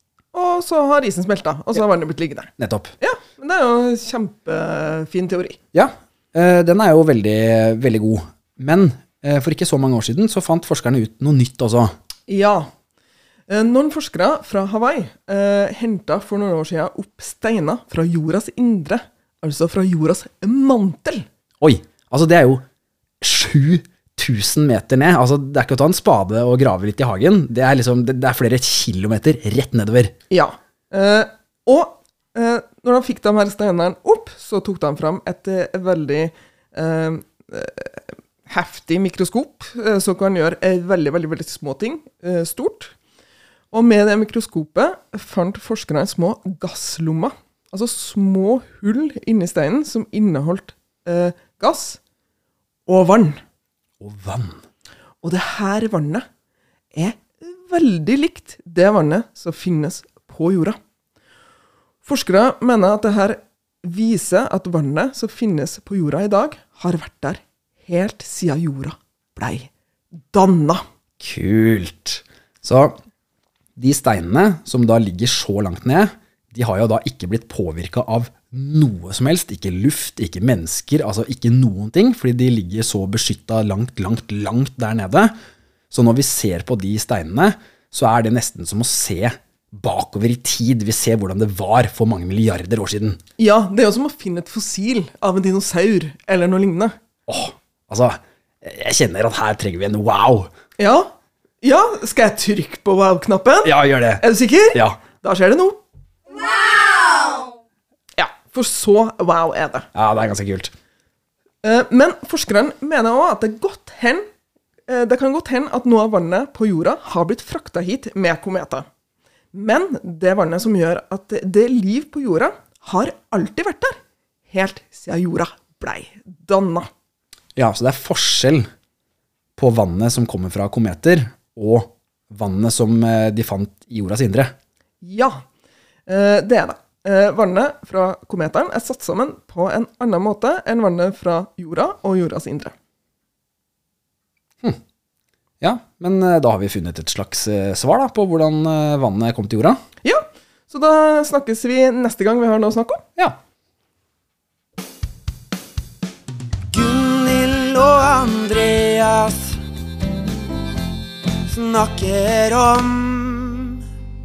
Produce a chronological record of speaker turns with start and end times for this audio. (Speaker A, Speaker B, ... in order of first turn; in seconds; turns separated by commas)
Speaker A: 0.3-5.6, Speaker B: 2.6-2.9, Speaker B: 5.7-11.9, Speaker A: 12.3-12.7, Speaker A: 13.5-21.2, Speaker B: 21.6-22.6, Speaker B: 23.2-30.1, Speaker A: 30.3-42.9, Speaker A: 43.7-52.0, Speaker A: 52.9-53.4, Speaker B: 54.0-54.6, Speaker A: 55.2-56.2, Speaker A: 56.9-60.8, Speaker A: 62.0-69.7, Speaker A: 70.2-70.8, Speaker B: 71.2-73.0, Speaker B: 73.8-85.3, Speaker B: 85.9-93.2, Speaker A: 93.4-96.9, Speaker B: 97.3-100.5, Speaker A: 100.8-105.8, Speaker B: 103.6-105.0, Speaker A: 108.2-109.9, Speaker B: 109.9-110.7, Speaker A: 111.6-114.2, Speaker A: 114.9-118.8, Speaker A: 119.5-124.0, Speaker A: 124.5-126.9, Speaker B: 127.5-128.7, Speaker B: 129.6-134.5, Speaker A: 135.0-135.4, Speaker A: 136.1-142.7, Speaker B: 145.6-149.8, Speaker A: 150.0-153.0, Speaker C: 156.7-159.6, Speaker C: 161.5-163.8